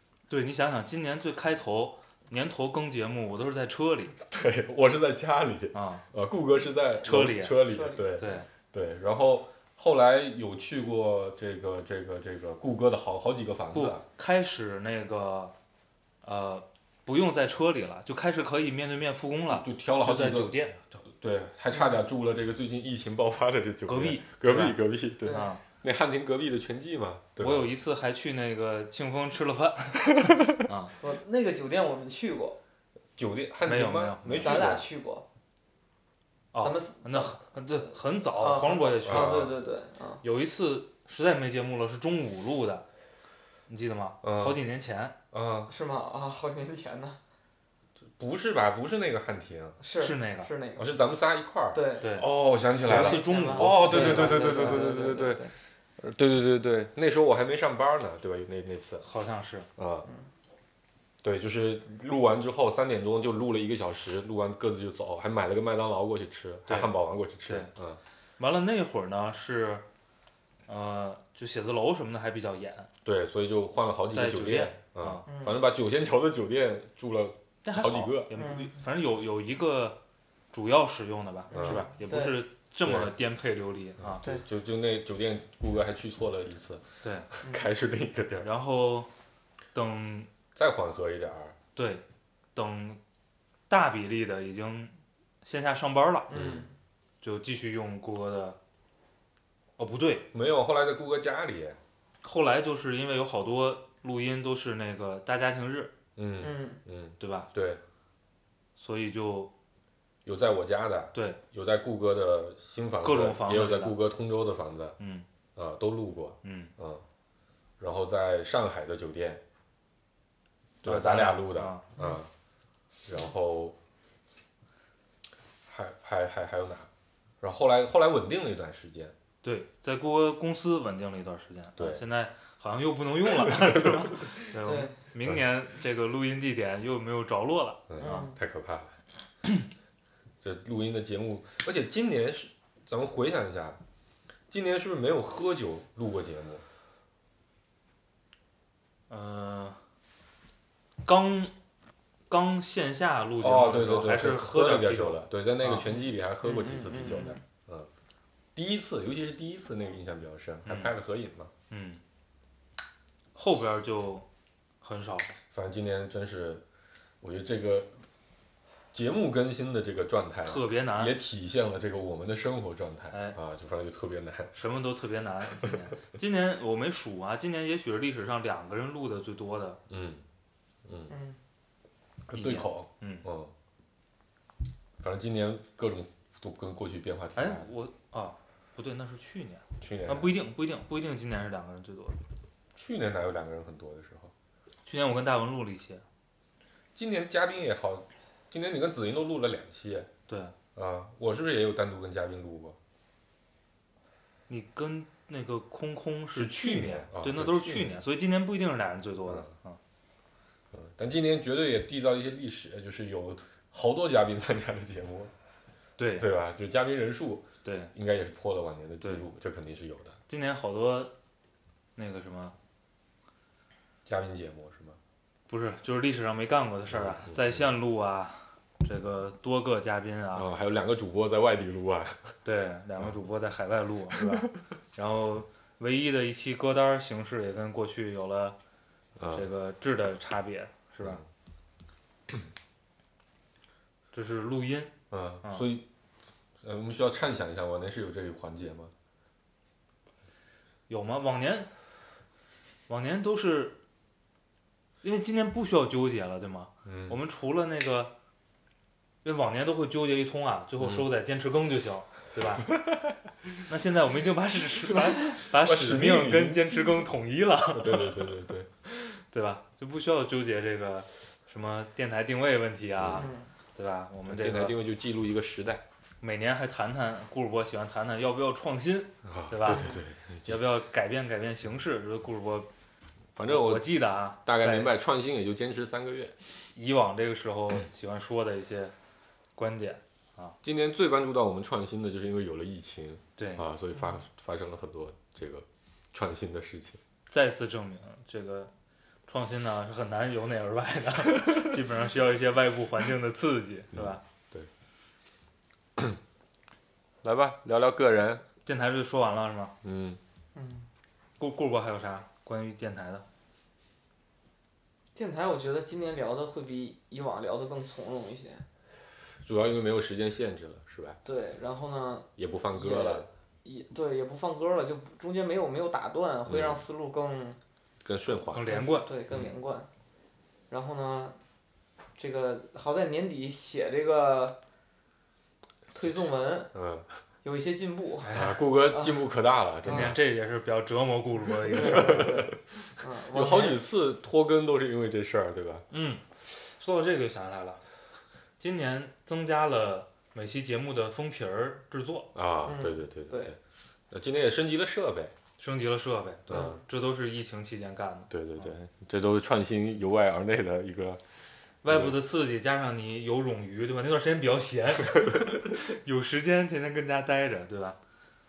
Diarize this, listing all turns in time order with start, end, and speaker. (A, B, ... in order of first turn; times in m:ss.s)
0:00.3-0:04.2 A
0:04.3-0:14.0 B
0:05.7-0:06.0 A
0:07.0-0:08.4 A
0:07.6-0:08.1 C
0:13.7-0:15.5 A
0:16.2-0:20.8 A
0:19.5-0:27.7 B
0:23.8-0:25.6 A
0:25.2-0:25.5 C
0:27.4-0:31.0 A
0:31.0-0:32.6 C
0:33.2-0:34.9 B
0:33.6-0:34.6 A
0:34.4-0:35.2 C
0:36.5-0:39.5 A
0:36.6-0:37.4 C
0:38.4-0:40.2 C
0:39.0-0:39.5 B
0:40.2-0:42.8 A
0:43.7-0:45.2 A
0:44.2-0:44.6 B
0:45.3-0:45.7 B
0:45.7-0:47.2 C
0:48.2-0:49.8 B
0:49.8-0:50.9 C
0:50.0-0:50.5 A
0:50.8-0:55.4 B
0:51.7-0:52.2 C
0:52.0-0:52.3 A
0:52.8-0:54.7 A
0:52.8-0:55.5 C
0:56.0-0:59.1 B
0:59.0-0:59.7 A
0:59.8-1:00.1 B
1:01.2-1:08.0 B
1:07.4-1:07.7 A
1:08.4-1:09.8 A
1:10.7-1:12.9 A
1:13.0-1:18.3 B
1:14.1-1:15.2 A
1:15.2-1:15.6 C
1:17.6-1:20.0 A
1:18.3-1:18.8 C
1:20.5-1:24.2 A
1:21.5-1:21.9 B
1:21.5-1:22.4 C
1:22.8-1:23.1 B
1:24.0-1:28.5 B
1:28.4-1:29.1 A
1:29.7-1:30.3 A
1:30.5-1:31.6 B
1:31.7-1:32.0 A
1:32.5-1:33.0 A
1:33.7-1:36.3 A
1:36.3-1:36.7 C
1:36.3-1:36.6 B
1:37.2-1:38.6 A
1:39.8-1:40.3 A
1:40.3-1:41.8 B
1:42.2-1:45.9 A
1:46.2-1:47.8 B
1:46.4-1:46.8 C
1:47.2-1:47.5 A
1:48.8-1:49.5 A
1:50.2-1:55.0 B
1:51.1-1:51.4 A
1:53.0-1:54.0 A
1:55.0-1:55.2 A
1:55.6-1:57.0 B
1:56.4-1:56.7 A
1:57.8-1:59.4 B
2:00.8-2:01.9 A
2:00.8-2:02.3 B
2:03.0-2:03.8 B
2:05.7-2:06.9 B
2:07.4-2:09.1 B
2:09.4-2:17.9 A
2:11.8-2:12.0 B
2:13.4-2:14.1 B
2:14.6-2:14.9 C
2:17.9-2:19.0 B
2:18.0-2:18.4 C
2:20.4-2:23.8 B
2:24.5-2:26.6 B
2:29.1-2:29.8 A
2:31.0-2:31.5 A
2:32.3-2:35.9 A
2:33.4-2:37.9 B
2:36.4-2:37.4 C
2:38.5-2:41.5 B
2:40.6-2:40.9 A
2:41.7-2:42.0 A
2:43.3-2:44.2 A
2:44.8-2:45.3 A
2:45.5-2:46.6 B
2:47.2-2:47.9 B
2:48.9-2:54.5 B
2:50.4-2:51.1 A
2:53.1-2:53.4 A
2:54.5-2:59.8 A
2:59.9-3:00.2 B
3:00.8-3:01.1 B
3:01.1-3:01.4 C
3:02.3-3:03.5 B
3:02.3-3:03.2 A
3:05.0-3:07.7 B
3:07.4-3:12.2 A
3:09.8-3:10.3 B
3:12.7-3:14.3 B
3:14.8-3:16.0 A
3:16.9-3:20.1 B
3:20.3-3:20.5 A
3:20.7-3:22.8 B
3:24.5-3:29.8 A
3:26.3-3:28.0 B
3:30.7-3:35.3 B
3:36.0-3:36.3 A
3:36.2-3:40.2 B
3:37.6-3:37.9 A
3:39.0-3:39.2 A
3:40.3-3:41.1 A
3:42.0-3:42.5 A
3:44.0-3:45.0 B
3:45.5-3:50.5 A
3:46.9-3:47.7 B
3:50.3-3:52.3 B
3:52.4-3:58.6 A
3:59.2-3:59.5 B
3:59.3-4:01.2 A
4:04.1-4:05.7 A
4:05.1-4:05.8 B
4:06.6-4:08.9 B
4:10.9-4:11.7 A
4:12.9-4:13.8 A
4:15.0-4:18.1 A
4:16.8-4:17.2 B
4:19.2-4:22.7 A
4:20.8-4:21.0 B
4:23.7-4:28.2 A
4:25.5-4:26.8 B
4:27.7-4:28.7 B
4:28.8-4:34.8 A
4:33.0-4:33.3 B
4:33.1-4:33.5 C
4:34.2-4:35.8 B
4:36.2-4:42.7 A
4:39.2-4:40.7 B
4:43.3-4:43.9 B
4:43.4-4:44.9 A
4:44.4-4:46.3 B
4:46.7-4:48.9 A
4:49.6-4:50.6 A
4:50.6-4:57.0 B
4:53.4-4:53.6 A
4:57.3-4:58.7 A
4:59.3-5:04.2 A
5:03.9-5:04.7 B
5:07.2-5:08.4 B
5:08.6-5:09.7 A
5:09.8-5:10.2 B
5:10.5-5:10.9 C
5:11.4-5:13.2 A
5:15.1-5:18.6 C
5:19.4-5:21.2 B
5:21.2-5:27.6 C
5:22.4-5:23.3 B
5:26.5-5:26.8 B
5:28.0-5:28.7 B
5:28.5-5:29.1 A
5:28.6-5:29.9 C
5:30.7-5:31.4 C
5:32.2-5:34.6 C
5:35.9-5:36.7 C
5:36.7-5:37.1 B
5:37.4-5:39.3 C
5:38.2-5:38.6 A
5:38.3-5:40.2 B
5:39.8-5:40.1 C
5:39.8-5:42.4 A
5:41.7-5:43.8 C
5:41.7-5:42.6 B
5:43.3-5:45.9 B
5:45.9-5:47.8 A
5:48.6-5:52.3 A
5:52.3-5:53.6 B
5:52.6-5:53.5 C
5:54.1-5:55.3 B
5:55.6-5:58.7 A
5:56.5-5:56.8 B
5:58.3-6:01.2 B
6:01.8-6:08.0 A
6:01.8-6:02.2 B